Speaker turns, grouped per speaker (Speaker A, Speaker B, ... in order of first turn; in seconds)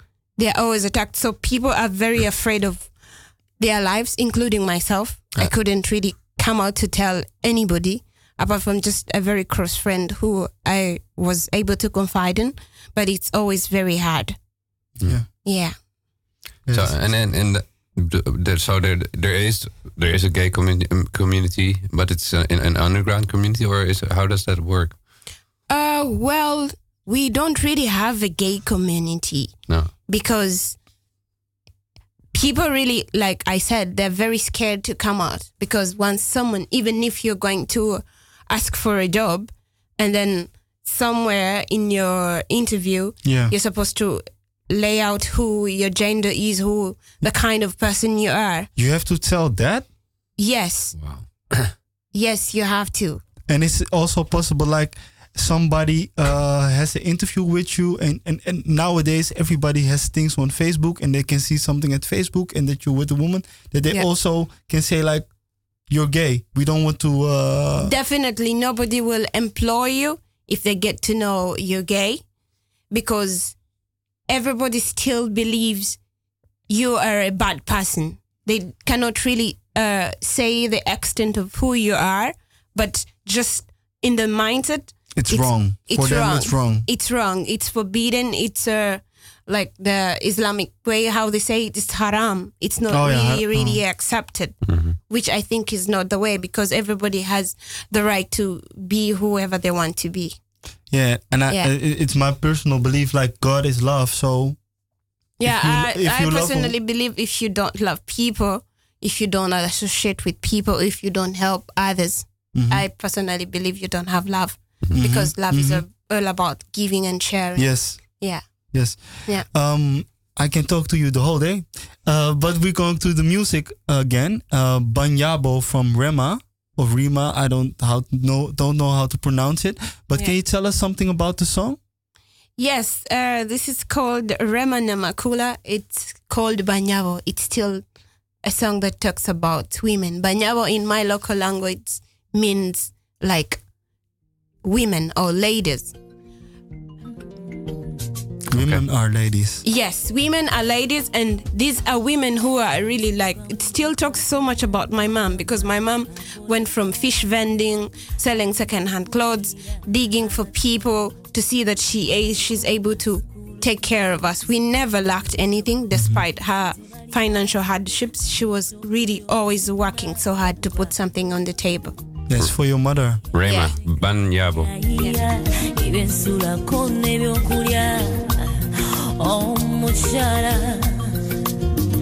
Speaker A: 0.4-2.9, 3.6-14.4, 15.4-15.8, 25.7-29.6, 30.1-30.8, 32.3-48.7, 50.4-51.2, 52.1-53.2, 67.8-72.2, 72.9-73.6, 74.3-76.0, 76.7-100.4, 105.4-119.5, 132.6-137.8, 138.4-143.6, 144.6-145.9, 149.6-172.0, 173.4-173.7
Speaker B: 15.0-15.3, 16.7-17.0, 43.2-43.5, 48.8-49.9, 53.5-65.3, 65.9-67.9, 85.2-86.9, 92.9-93.8, 100.9-104.6, 105.4-106.7, 112.5-112.8, 114.9-115.8, 117.6-131.8, 148.5-149.6, 165.9-166.2, 172.3-173.2
Speaker C: 16.7-25.0, 51.0-51.4, 94.7-95.0, 148.6-148.8, 173.3-174.7
Speaker D: 174.6-178.5, 179.2-181.1